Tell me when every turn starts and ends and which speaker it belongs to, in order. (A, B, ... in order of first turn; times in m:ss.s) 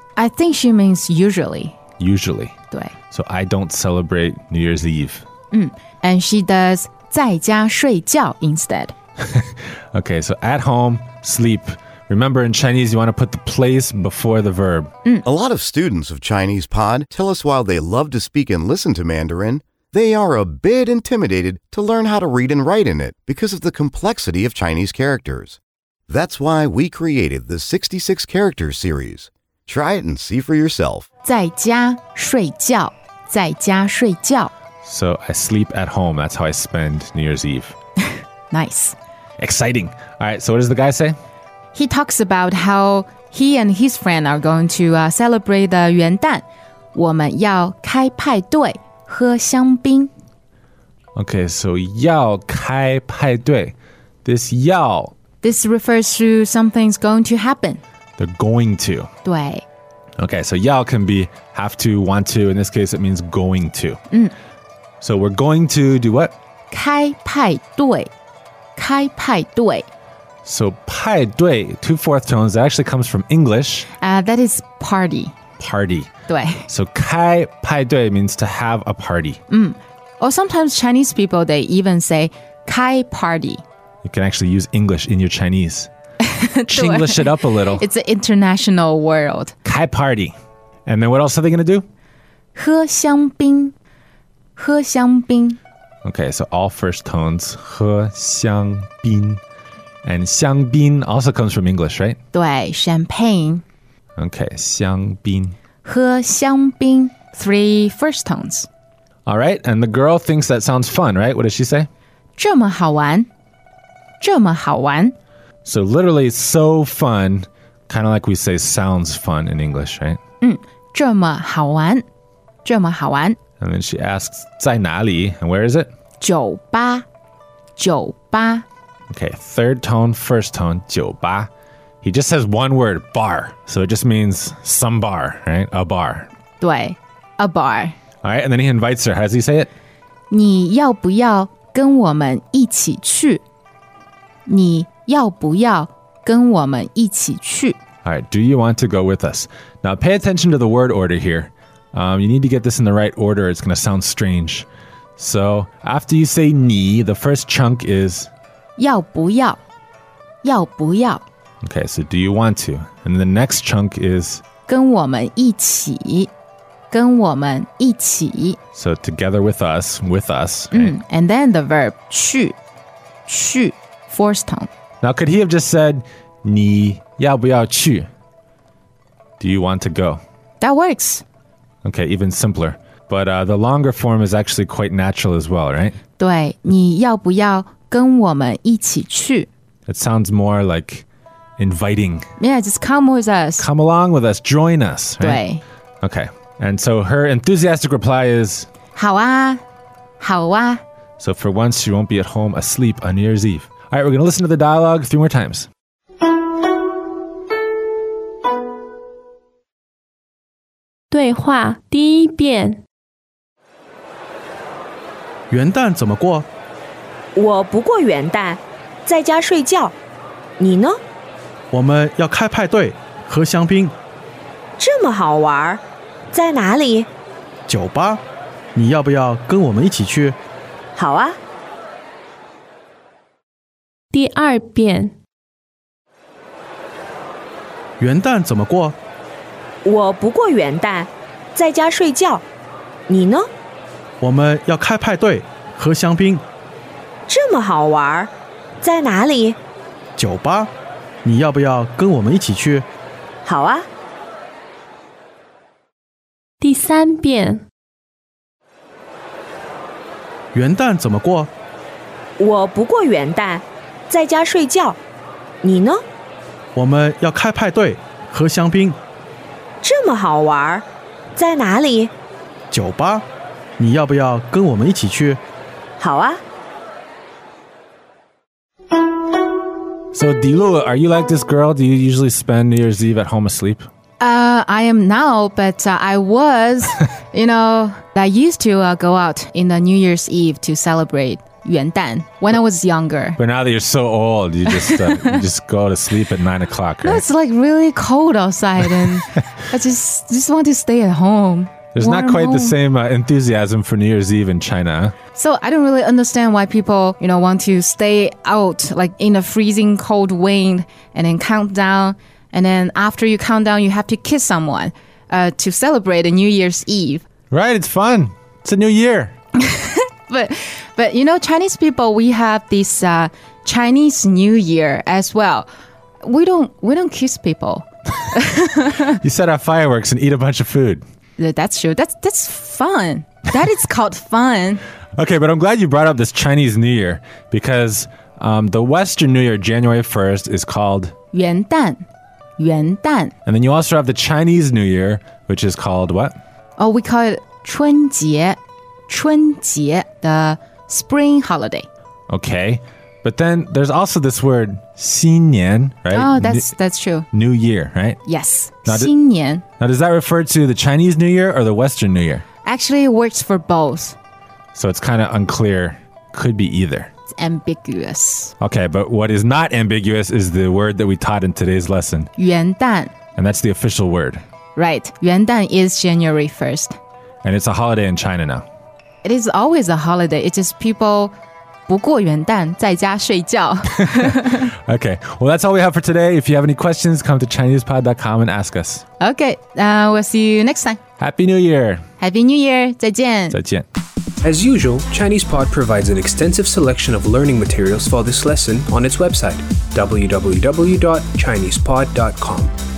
0:00.2-0:01.8 A
0:02.0-0:02.5 B
0:03.1-0:05.2 B
0:05.5-0:08.9 A
0:09.2-0:14.9 B
0:15.2-0:31.1 C
0:31.2-0:34.5 A
0:34.8-0:37.8 B
0:38.5-0:39.0 A
0:39.4-0:41.2 B
0:41.7-0:50.1 A
0:51.2-0:55.1 B
0:55.4-0:57.8 A
0:58.2-0:59.1 B
0:59.2-0:59.6 A
1:00.2-1:04.0 B
1:05.0-1:06.3 B
1:06.7-1:08.1 A
1:08.8-1:09.9 A
1:10.4-1:13.9 B
1:14.0-1:15.3 A
1:15.6-1:16.1 B
1:16.3-1:16.7 A
1:16.7-1:19.4 B
1:19.5-1:23.6 A
1:24.0-1:25.9 B
1:26.2-1:29.5 A
1:26.7-1:27.8 B
1:29.6-1:30.4 B
1:30.9-1:31.8 B
1:32.6-1:33.7 A
1:34.6-1:35.6 A
1:36.0-1:39.4 B
1:40.0-1:42.2 B
1:42.3-1:43.6 A
1:44.2-1:45.6 B
1:45.8-1:48.7 A
1:49.3-1:51.9 B
1:52.4-1:53.3 A
1:54.2-1:55.2 A
1:55.6-2:00.2 B
2:00.4-2:02.0 A
2:02.6-2:03.4 A
2:03.6-2:05.9 B
2:06.2-2:07.1 A
2:07.8-2:08.6 A
2:09.1-2:11.5 B
2:12.0-2:16.3 B
2:16.6-2:18.0 A
2:18.2-2:19.7 B
2:20.3-2:23.4 A
2:24.5-2:27.8 A
2:28.0-2:34.7 B
2:35.2-2:38.3 B
2:38.8-2:39.6 A
2:40.4-2:41.2 A
2:41.6-2:44.4 B
2:44.7-2:46.3 A
2:46.9-2:48.6 A
2:48.8-2:51.0 B
2:50.7-2:52.6 A
2:53.3-2:54.7 A
2:55.0-2:58.1 B
2:59.4-3:00.2 B
3:00.6-3:01.2 A
3:01.8-3:06.0 B
3:06.2-3:09.5 A
3:09.9-3:11.1 B
3:11.6-3:12.3 B
3:12.4-3:13.6 A
3:13.6-3:15.4 B
3:15.2-3:15.6 A
3:16.0-3:18.7 B
3:19.0-3:19.6 A
3:20.2-3:20.8 A
3:21.2-3:25.7 B
3:31.1-3:32.8 D
3:35.5-3:36.5 E
3:37.4-3:40.0 F
3:40.6-3:41.0 F
3:41.7-3:44.0 E
3:44.8-3:47.1 F
3:47.7-3:48.2 E
3:48.8-3:50.4 E
3:51.0-3:51.4 F
3:54.1-3:55.1 D
3:58.0-3:59.0 E
3:59.8-4:02.4 F
4:03.1-4:03.5 F
4:04.2-4:06.5 E
4:07.3-4:09.6 F
4:10.2-4:10.7 E
4:11.2-4:12.9 E
4:13.4-4:13.9 F
4:16.6-4:17.6 D
4:20.5-4:21.5 E
4:22.4-4:25.0 F
4:25.6-4:26.0 F
4:26.8-4:29.0 E
4:29.8-4:32.1 F
4:32.7-4:33.3 E
4:33.8-4:35.4 E
4:36.0-4:36.4 F
4:40.1-4:43.9 B
4:44.2-4:53.4 A
4:53.4-4:57.2 B
4:54.7-4:55.4 A
4:57.0-5:02.8 A
5:02.0-5:05.2 B
5:05.4-5:17.2 A
5:17.5-5:19.3 B
5:19.6-5:25.7 A
5:26.2-5:29.2 A
5:29.1-5:31.0 B
5:31.4-5:34.8 A
5:35.2-5:41.1 B
5:41.3-5:42.0 A
5:42.6-5:43.3 A
5:43.5-5:46.4 B
5:46.8-5:51.9 A
5:52.3-5:56.7 B
5:56.1-5:57.3 A
5:57.3-5:58.2 B
5:58.2-5:59.6 A
5:58.9-5:59.1 B
5:59.8-6:02.4 B
6:02.6-6:04.2 A
6:04.8-6:07.1 B
6:07.3-6:08.5 A
6:08.6-6:12.3 B
6:12.4-6:13.1 A
6:13.4-6:14.4 B
6:14.8-6:17.0 A
6:17.4-6:18.6 B
6:19.2-6:21.3 A
6:21.9-6:24.7 A
6:24.0-6:29.0 B
6:29.2-6:31.0 A
6:31.2-6:32.0 B
6:32.2-6:33.6 A
6:33.5-6:33.9 B
6:34.4-6:42.7 G